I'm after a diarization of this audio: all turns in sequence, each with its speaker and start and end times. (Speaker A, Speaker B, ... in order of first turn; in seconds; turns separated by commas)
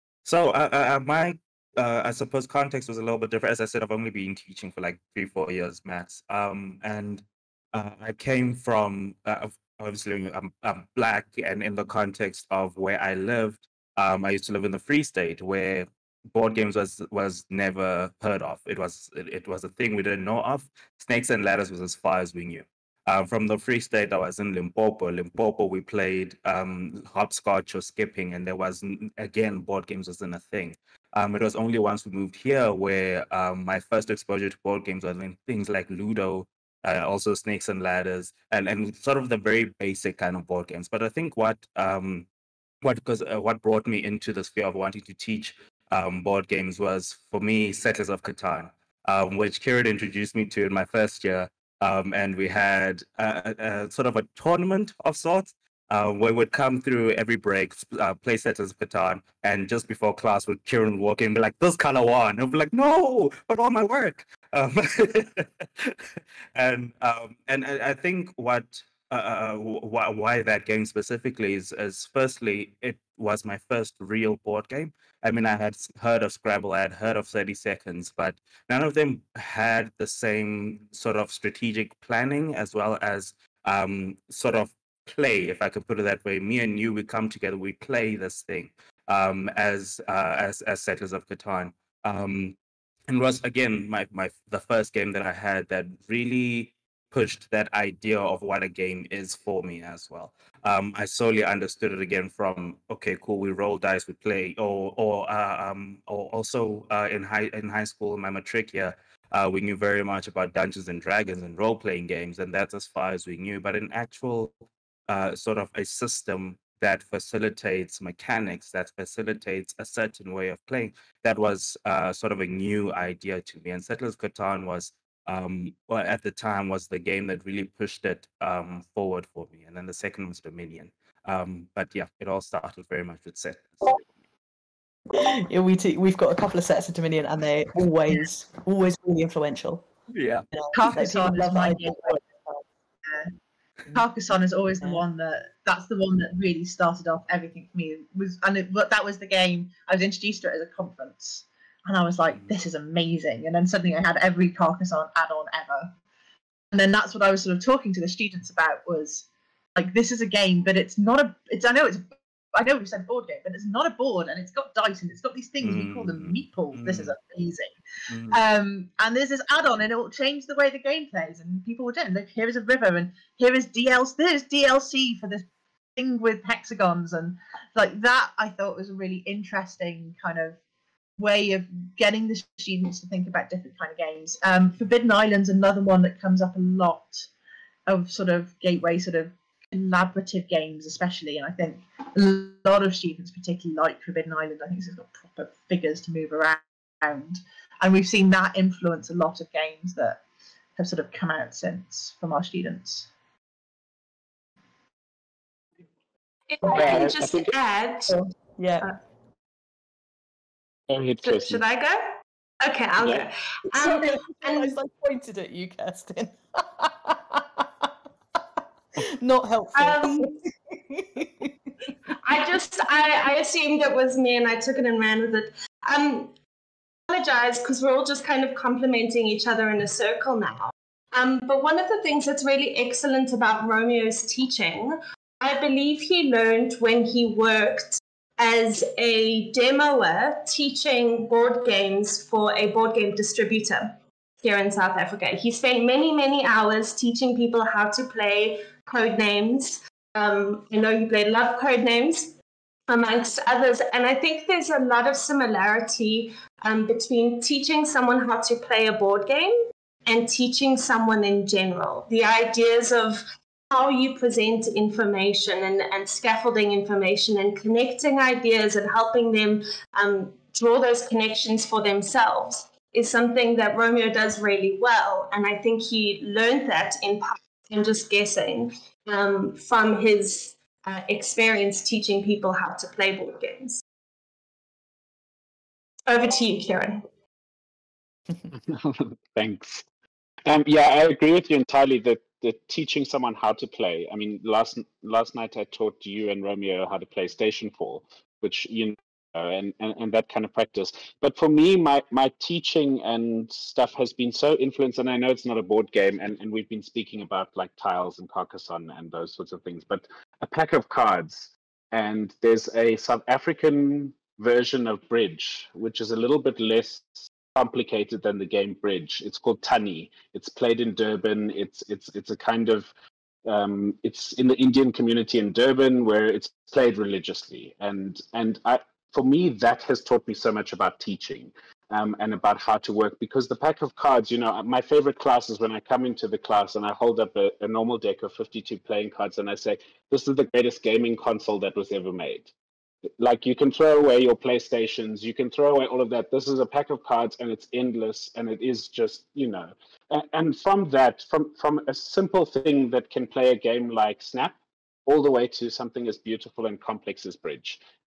Speaker A: 0.2-42.3, Speaker A: 42.8-66.0, Speaker A: 66.5-92.6, Speaker A: 93.1-114.5, Speaker A: 115.1-134.0, Speaker B: 135.1-139.9, Speaker A: 140.1-140.5, Speaker B: 140.5-142.6, Speaker C: 140.7-142.2, Speaker C: 143.1-143.3, Speaker C: 143.9-156.0, Speaker A: 152.3-152.6, Speaker C: 156.7-167.8, Speaker A: 165.6-167.2, Speaker A: 168.1-168.4, Speaker C: 168.3-180.6, Speaker C: 181.2-187.3, Speaker C: 187.9-200.2, Speaker C: 200.8-203.1, Speaker D: 206.5-208.2, Speaker E: 206.7-207.6, Speaker B: 208.1-208.9, Speaker E: 210.9-211.6, Speaker D: 211.2-214.8, Speaker B: 213.7-217.9, Speaker B: 219.0-221.5, Speaker D: 219.8-220.4, Speaker D: 222.2-226.3, Speaker D: 227.1-252.3, Speaker D: 252.9-259.6, Speaker D: 260.1-283.8, Speaker D: 286.1-287.1, Speaker E: 288.5-289.9, Speaker E: 290.5-322.9, Speaker E: 323.4-342.5, Speaker E: 343.2-357.8